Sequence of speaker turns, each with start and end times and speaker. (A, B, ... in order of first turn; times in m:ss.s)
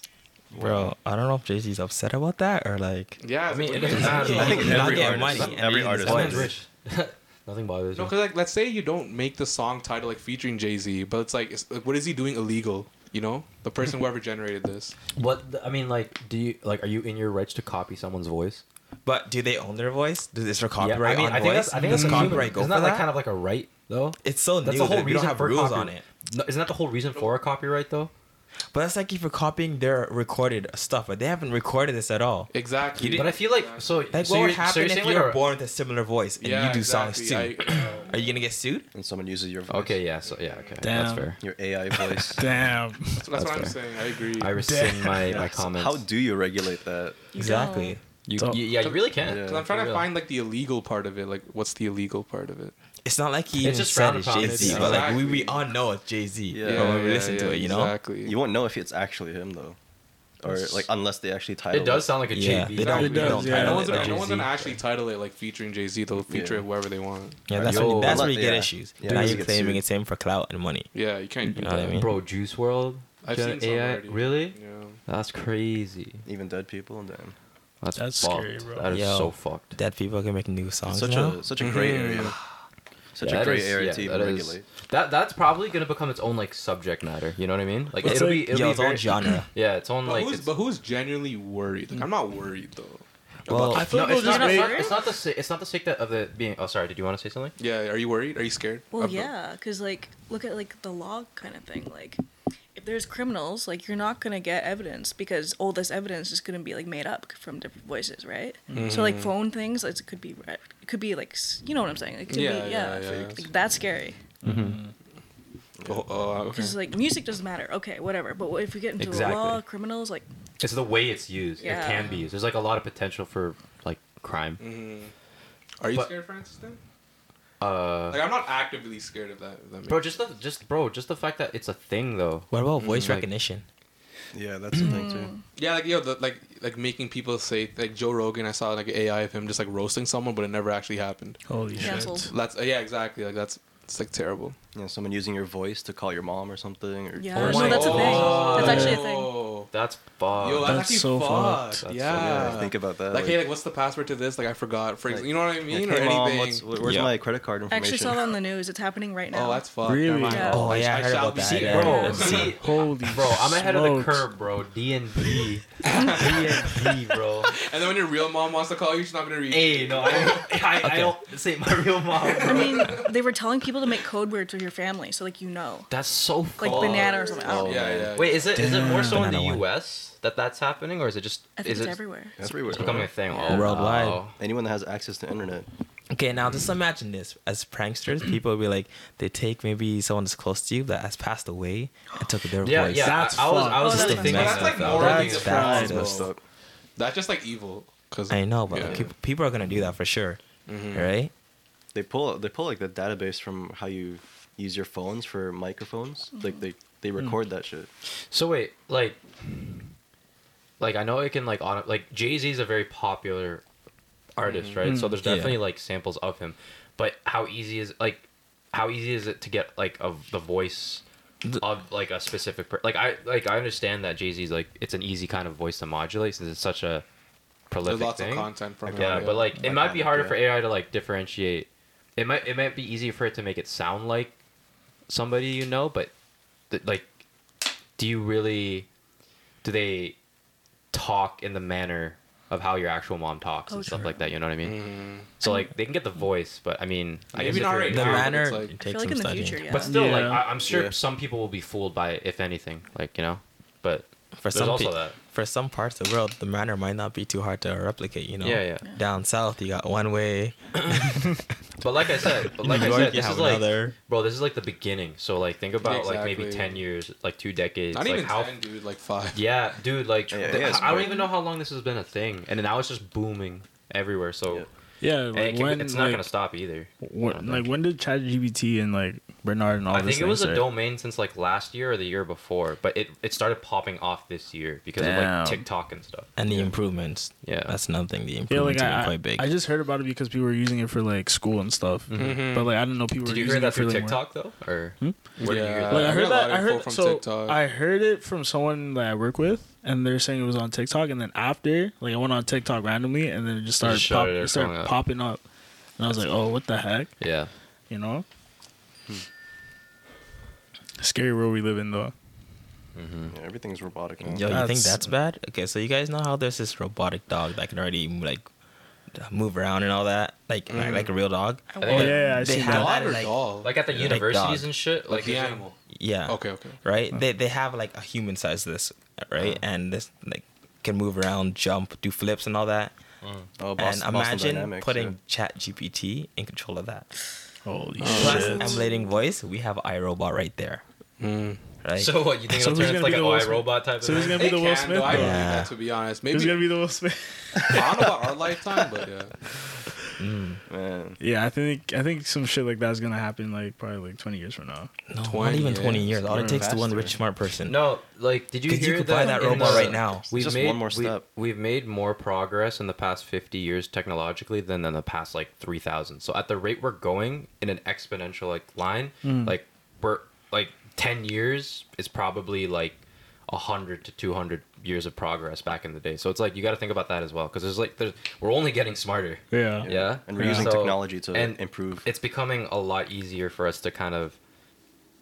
0:00.5-0:00.9 A
0:00.6-0:03.2 B
0:03.2-0:05.3 C
0:03.5-0:08.1 D
0:04.0-0:06.6 B
0:04.0-0:06.5 A
0:07.9-0:15.0 C
0:15.1-0:18.6 D
0:19.0-0:23.1 B
0:20.8-0:28.1 D
0:21.9-0:22.5 C
0:24.2-0:26.0 B
0:28.7-0:33.4 B
0:32.5-0:34.1 C
0:33.1-0:35.4 D
0:34.1-0:38.9 B
0:36.4-0:38.2 C
0:38.9-0:40.0 A
0:39.7-0:41.4 D
0:40.2-0:40.9 C
0:40.8-0:41.4 E
0:41.4-0:42.4 A
0:42.3-0:43.5 E
0:43.2-0:44.6 C
0:43.3-0:43.8 D
0:44.4-0:46.1 D
0:44.5-0:45.5 E
0:45.5-0:47.2 A
0:47.3-0:48.0 F
0:47.4-0:48.0 B
0:48.3-0:50.1 D
0:48.4-0:48.8 E
0:49.2-0:49.7 A
0:49.3-0:52.7 C
0:53.0-0:58.0 B
0:53.6-0:55.2 D
0:54.4-0:55.6 C
0:56.5-0:57.0 A
0:56.6-0:58.4 C
0:58.2-0:59.8 A
1:00.4-1:02.2 A
1:00.5-1:00.8 B
1:01.7-1:04.8 D
1:02.3-1:04.3 B
1:02.8-1:07.4 C
1:02.9-1:03.9 E
1:06.3-1:06.7 A
1:07.5-1:10.9 B
1:07.5-1:09.8 A
1:07.6-1:08.3 D
1:10.9-1:12.0 C
1:11.5-1:16.2 D
1:11.6-1:12.2 B
1:13.2-1:15.0 C
1:16.3-1:17.4 A
1:17.8-1:19.7 D
1:18.0-1:18.9 E
1:18.9-1:21.4 B
1:20.9-1:22.4 A
1:21.6-1:22.4 C
1:23.2-1:24.7 A
1:23.2-1:30.5 D
1:28.0-1:28.6 E
1:28.0-1:29.5 B
1:30.0-1:34.0 C
1:33.5-1:33.9 B
1:33.7-1:34.9 E
1:33.8-1:37.6 D
1:34.1-1:35.0 F
1:37.6-1:39.3 C
1:38.9-1:42.2 F
1:42.8-1:54.2 F
1:48.7-1:49.0 E
1:48.7-1:49.4 C
1:52.3-1:53.5 C
1:54.4-1:54.9 E
1:54.4-1:54.8 D
1:55.8-1:56.2 A
1:55.8-1:56.8 C
1:56.5-2:00.2 F
1:59.0-1:59.6 D
2:00.6-2:04.6 D
2:01.6-2:02.2 F
2:01.6-2:02.2 C
2:04.6-2:05.1 C
2:05.8-2:06.8 C
2:07.6-2:08.2 D
2:08.1-2:10.3 C
2:09.9-2:13.3 D
2:12.5-2:13.6 B
2:14.3-2:15.3 A
2:14.8-2:15.4 F
2:15.6-2:24.6 C
2:21.5-2:22.3 E
2:21.8-2:22.3 F
2:24.7-2:28.3 A
2:27.2-2:29.4 F
2:27.3-2:29.1 D
2:27.4-2:29.7 C
2:28.6-2:29.0 E
2:29.7-2:30.9 D
2:30.4-2:36.7 C
2:30.6-2:31.8 E
2:31.8-2:32.6 D
2:32.2-2:33.4 A
2:35.1-2:38.3 A
2:36.8-2:37.1 B
2:37.7-2:40.8 F
2:39.3-2:42.5 C
2:39.8-2:40.6 E
2:40.5-2:42.6 B
2:41.4-2:47.5 D
2:41.7-2:42.3 F
2:42.3-2:44.3 E
2:45.8-2:46.9 C
2:47.5-2:50.6 C
2:49.5-2:52.9 D
2:50.8-2:51.2 B
2:52.2-2:53.1 C
2:52.4-2:55.9 F
2:55.9-2:57.3 D
2:56.6-2:57.9 F
2:56.6-2:58.6 C
2:57.2-2:58.2 A
2:58.1-3:02.0 D
2:58.6-2:59.3 E
2:58.6-2:59.7 B
3:01.6-3:02.4 F
3:02.4-3:03.1 A
3:02.7-3:04.4 D
3:03.5-3:04.2 B
3:04.4-3:05.7 A
3:06.1-3:16.3 B
3:12.6-3:15.7 D
3:13.0-3:14.1 E
3:13.7-3:14.7 F
3:14.2-3:16.3 C
3:15.2-3:16.1 E
3:15.5-3:16.4 A
3:17.0-3:19.1 C
3:18.3-3:20.4 B
3:20.7-3:21.1 C
3:20.9-3:21.3 B
3:21.9-3:27.9 A
3:28.3-3:29.2 D
3:30.8-3:33.6 D
3:34.4-3:41.0 D
3:34.4-3:34.9 C
3:34.8-3:35.2 E
3:35.2-3:35.6 B
3:41.6-3:47.0 D
3:47.7-3:54.4 D
3:47.8-3:49.5 C
3:48.9-3:50.4 A
3:55.1-3:56.1 D
3:56.7-3:57.1 D
3:58.0-3:58.9 D
3:59.6-4:00.2 D
4:00.9-4:04.8 D
4:03.7-4:04.3 F
4:04.6-4:05.3 C
4:05.3-4:08.3 D
4:05.4-4:05.7 F
4:07.3-4:08.8 C
4:07.4-4:09.6 B
4:08.8-4:10.3 F
4:09.7-4:15.2 D
4:09.8-4:10.4 E
4:10.6-4:11.0 A
4:14.4-4:21.3 B
4:18.4-4:18.9 D
4:21.8-4:28.6 D
4:22.5-4:24.0 B
4:25.8-4:26.8 C
4:27.9-4:29.4 C
4:29.3-4:34.7 D
4:30.3-4:31.3 A
4:30.5-4:31.3 F
4:35.0-4:36.3 E
4:35.3-4:37.7 D
4:37.0-4:40.7 E
4:39.9-4:46.3 D
4:45.0-4:45.7 E
4:46.4-4:49.6 B
4:47.4-4:47.8 D
4:48.5-4:54.2 E
4:52.1-4:52.5 D
4:52.1-4:52.8 C
4:53.2-4:56.3 D
4:55.0-5:05.4 E
4:55.4-4:57.6 C
5:03.8-5:05.0 D
5:06.0-5:07.2 E
5:07.2-5:07.5 D
5:07.9-5:08.2 E
5:11.0-5:12.1 E
5:13.0-5:13.3 D
5:13.3-5:14.5 A
5:14.3-5:18.5 B
5:14.4-5:15.1 E
5:19.1-5:24.7 B
5:20.7-5:21.1 C
5:21.7-5:22.4 F
5:21.8-5:22.2 D
5:21.9-5:23.0 E
5:22.5-5:23.8 C
5:23.6-5:25.6 D
5:25.1-5:26.8 C
5:25.9-5:32.9 B
5:33.2-5:33.5 D
5:33.6-5:35.2 A
5:33.8-5:37.1 B
5:37.6-5:38.8 E
5:38.0-5:38.6 C
5:38.2-5:40.8 B
5:38.5-5:38.8 F
5:41.2-5:41.6 C
5:41.8-5:42.2 B
5:42.0-5:44.6 D
5:42.5-5:45.5 E
5:44.3-5:46.7 C
5:45.0-5:45.7 B
5:46.3-5:48.1 E
5:47.7-5:49.3 C
5:50.2-5:50.6 B
5:50.7-5:51.2 A
5:51.2-5:54.9 E
5:55.1-5:57.9 B
5:55.2-5:56.4 C
5:56.3-5:57.2 A
5:57.7-6:24.4 D
5:58.7-6:00.2 B
5:59.3-5:59.6 F
6:00.3-6:01.3 A
6:09.2-6:09.6 E
6:19.5-6:20.7 E
6:19.8-6:22.1 A